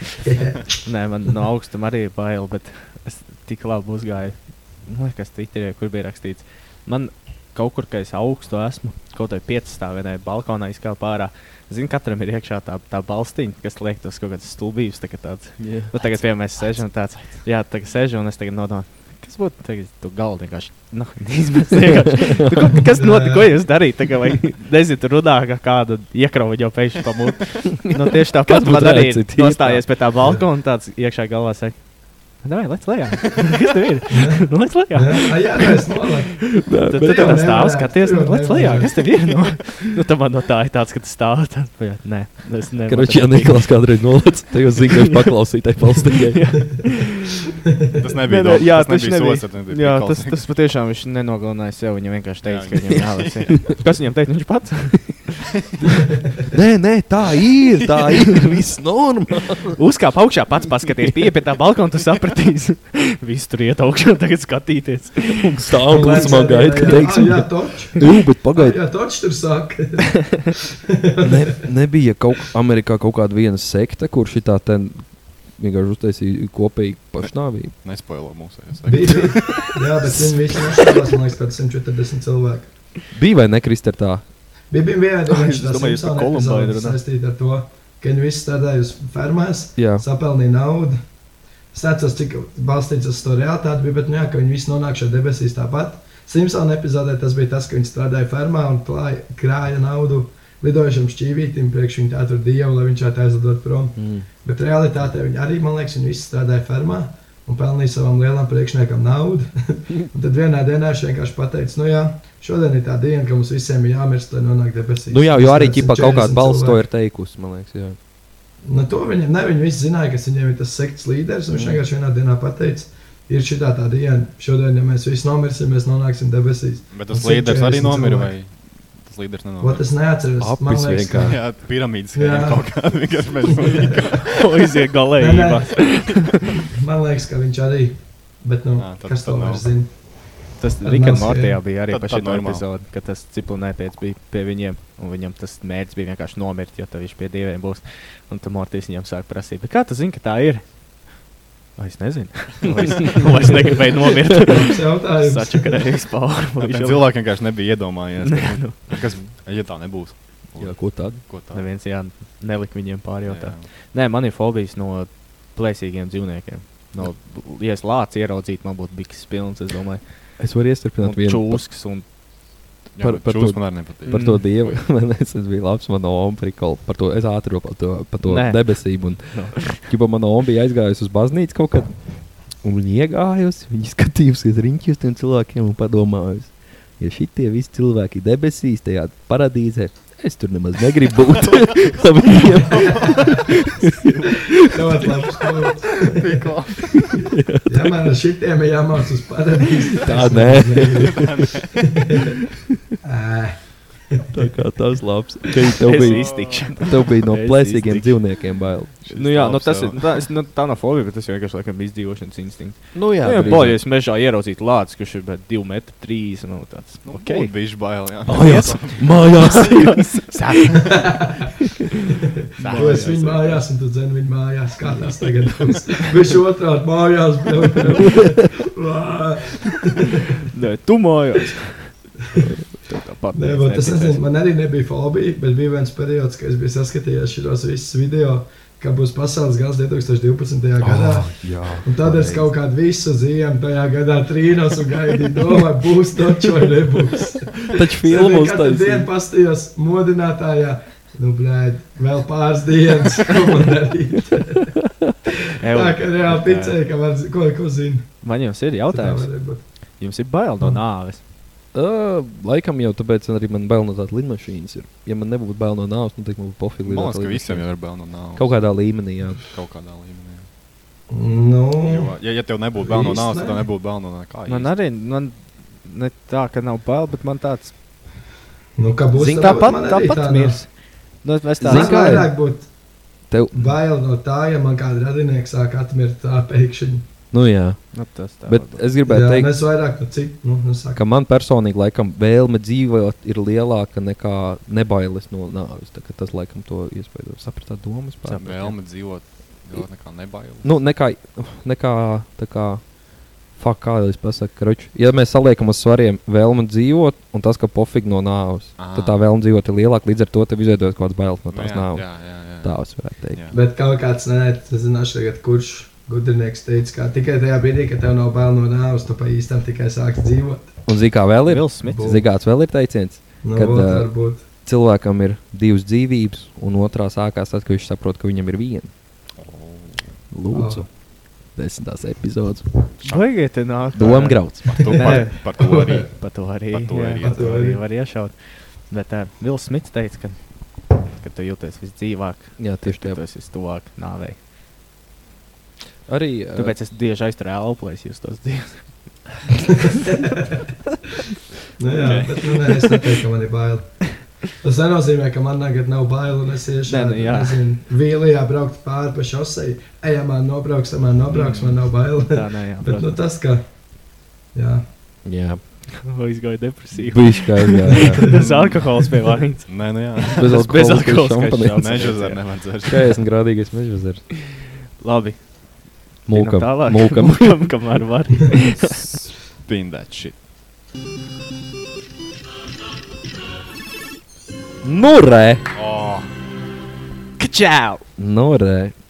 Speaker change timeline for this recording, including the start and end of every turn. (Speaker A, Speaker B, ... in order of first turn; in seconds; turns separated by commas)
Speaker A: 0.2-0.8, Speaker B: 0.8-35.7, Speaker C: 15.6-15.9, Speaker A: 22.9-23.8, Speaker C: 28.4-30.1, Speaker A: 34.1-39.0, Speaker C: 36.6-37.8, Speaker B: 36.8-44.0, Speaker C: 42.9-46.9, Speaker B: 46.3-47.2, Speaker D: 47.9-50.5, Speaker B: 48.3-55.4, Speaker D: 52.4-53.5, Speaker C: 56.5-59.8, Speaker B: 59.8-66.6, Speaker C: 65.3-68.8, Speaker A: 65.9-71.5, Speaker C: 71.2-77.7, Speaker D: 77.8-79.7, Speaker A: 78.8-82.7, Speaker C: 83.1-84.2, Speaker A: 84.7-91.0, Speaker B: 85.3-87.0, Speaker C: 89.8-90.0, Speaker A: 91.7-116.8, Speaker C: 104.0-104.3, Speaker C: 115.1-118.0, Speaker A: 118.6-128.3, Speaker C: 121.5-121.8, Speaker D: 126.9-129.8, Speaker A: 129.6-131.4, Speaker C: 130.4-131.4, Speaker D: 131.2-134.7, Speaker A: 132.1-132.9, Speaker A: 133.5-134.0, Speaker B: 134.3-136.4, Speaker A: 135.2-135.9, Speaker A: 136.7-140.2, Speaker D: 138.8-139.6, Speaker B: 140.6-150.6, Speaker A: 140.8-141.6, Speaker D: 141.8-142.6, Speaker B: 151.8-157.1, Speaker A: 154.4-155.8, Speaker D: 156.6-161.6, Speaker B: 158.3-158.7, Speaker C: 160.6-161.2, Speaker B: 161.5-170.4, Speaker D: 163.2-163.7, Speaker C: 170.4-171.7, Speaker B: 171.0-172.1, Speaker D: 172.9-174.8, Speaker C: 173.0-182.0, Speaker B: 174.1-174.4, Speaker B: 178.2-179.9, Speaker C: 182.5-195.0, Speaker D: 191.3-192.0, Speaker D: 192.7-193.4, Speaker A: 194.5-196.4, Speaker D: 196.1-197.2, Speaker C: 197.3-198.0, Speaker A: 197.7-202.4, Speaker C: 200.1-201.4, Speaker D: 200.9-201.8, Speaker A: 203.0-204.3, Speaker C: 204.3-209.0, Speaker B: 205.8-208.3, Speaker D: 206.0-206.7, Speaker D: 209.0-210.2, Speaker B: 209.1-217.5, Speaker C: 212.9-213.8, Speaker D: 217.0-219.7, Speaker C: 218.2-220.3, Speaker B: 218.3-221.1, Speaker A: 221.0-221.5, Speaker B: 222.6-223.7, Speaker D: 222.6-223.1, Speaker A: 222.7-230.3, Speaker C: 228.0-228.4, Speaker B: 230.5-232.2, Speaker B: 232.7-234.2, Speaker A: 233.3-254.8, Speaker C: 240.8-242.5, Speaker C: 247.7-249.1, Speaker B: 255.6-256.8, Speaker A: 255.7-259.6, Speaker B: 258.2-261.2, Speaker C: 261.7-269.4, Speaker D: 266.8-270.4, Speaker A: 271.1-273.6, Speaker D: 271.8-274.7, Speaker B: 274.4-277.7, Speaker A: 278.8-280.6, Speaker C: 279.1-279.7, Speaker B: 279.3-282.2, Speaker C: 281.6-282.4, Speaker A: 281.6-282.7, Speaker C: 283.3-283.8, Speaker A: 283.5-287.0, Speaker C: 287.3-289.5, Speaker B: 287.9-288.8, Speaker A: 289.1-291.0, Speaker C: 290.9-298.7, Speaker B: 298.2-298.8, Speaker D: 298.4-300.7, Speaker C: 300.6-303.0, Speaker C: 303.5-313.4, Speaker D: 308.8-309.2, Speaker D: 311.5-313.5, Speaker A: 313.5-320.7, Speaker C: 320.9-328.9, Speaker B: 321.4-322.2, Speaker A: 321.9-322.3, Speaker A: 323.4-324.4, Speaker D: 329.4-330.2, Speaker C: 330.3-332.7, Speaker A: 330.5-330.8, Speaker D: 333.0-337.6, Speaker B: 333.0-344.4, Speaker C: 333.9-335.2, Speaker A: 335.6-336.1, Speaker A: 337.2-337.8, Speaker C: 342.6-343.2, Speaker C: 346.1-346.8, Speaker B: 346.5-349.2, Speaker A: 350.0-350.4, Speaker A: 351.8-363.9, Speaker B: 352.0-352.4, Speaker B: 356.9-357.6, Speaker B: 361.3-363.2, Speaker A: 364.5-364.9, Speaker C: 365.2-365.6, Speaker B: 366.0-372.5, Speaker C: 366.9-368.3, Speaker D: 368.3-368.9, Speaker D: 369.7-370.6, Speaker C: 370.4-372.1, Speaker D: 371.8-373.2, Speaker C: 372.9-374.3, Speaker B: 374.9-379.2, Speaker C: 376.2-377.7, Speaker D: 379.1-380.4, Speaker C: 384.8-385.6, Speaker D: 385.7-386.3, Speaker B: 387.4-388.0, Speaker C: 388.2-388.9